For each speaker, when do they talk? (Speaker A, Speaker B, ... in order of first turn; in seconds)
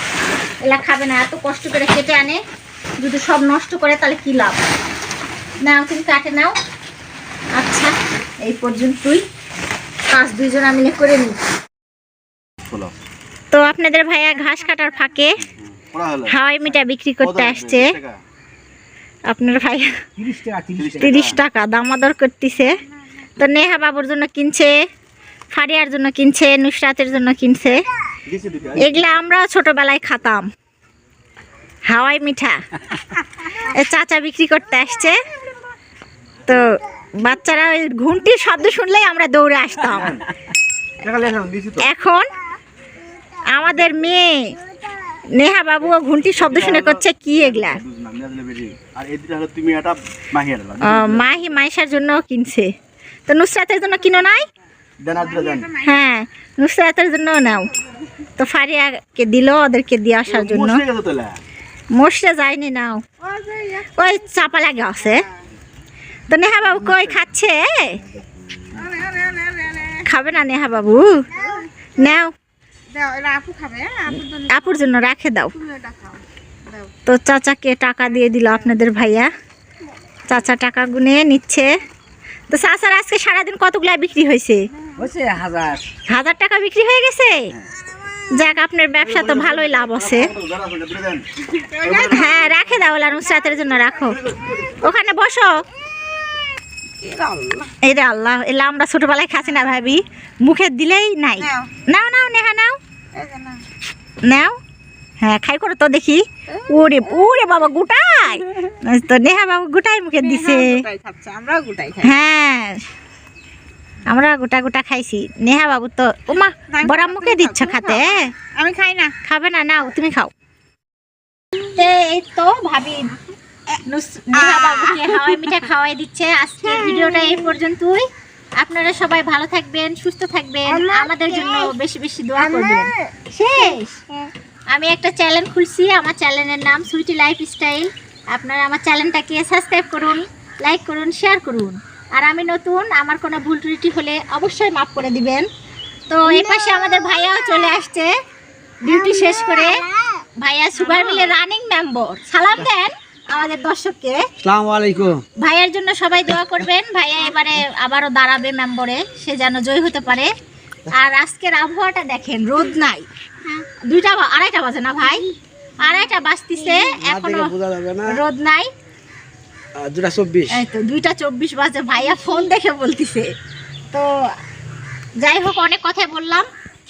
Speaker A: 0.6-2.4, 3.0-4.6, 5.6-6.6, 7.6-7.9, 8.4-9.2, 10.1-11.4, 13.5-15.4, 16.3-17.9, 19.3-19.9, 21.0-22.8, 23.4-24.7, 25.5-27.8, 28.8-30.5, 31.9-32.9, 33.4-35.2, 36.5-40.2, 41.8-42.3, 43.5-44.6, 45.4-47.8, 50.8-52.7, 53.3-54.5, 55.8-57.7, 58.4-60.8, 61.9-63.0, 64.0-65.3, 66.3-68.0, 70.0-71.3, 72.0-72.3, 74.5-75.6, 77.1-79.3, 80.3-81.7, 82.5-84.6, 86.1-87.5, 88.3-90.3, 92.0-94.2, 94.8-95.6, 97.8-102.8, 104.2-104.6, 105.2-110.8, 112.0-112.8, 114.1-118.3, 119.2-120.3, 121.6-123.2, 123.8-128.1, 128.6-134.0, 134.7-145.5, 146.1-148.1, 148.8-149.9, 150.4-154.2, 155.4-160.3, 160.9-163.1, 163.7-165.3, 165.8-168.7, 170.5-173.3, 175.2-176.5
Speaker B: 12.7-13.0, 15.6-18.2, 20.8-21.4, 28.3-29.0, 39.8-40.3, 41.0-41.9, 46.4-51.4, 55.0-55.7, 60.3-61.4, 89.0-91.2, 91.8-92.5, 94.2-94.8
Speaker C: 20.2-21.3, 85.0-85.9, 154.4-155.2, 167.0-168.2, 169.8-170.6
Speaker D: 55.2-56.0, 63.2-64.5, 65.0-65.4, 68.8-70.1, 71.3-72.0, 72.9-74.9, 75.5-76.9, 91.5-92.6, 97.0-97.7, 101.4-101.7, 103.2-103.6, 106.6-107.1, 110.2-112.2, 116.7-119.2, 124.3-125.6, 126.6-127.4, 130.7-131.7, 132.4-134.3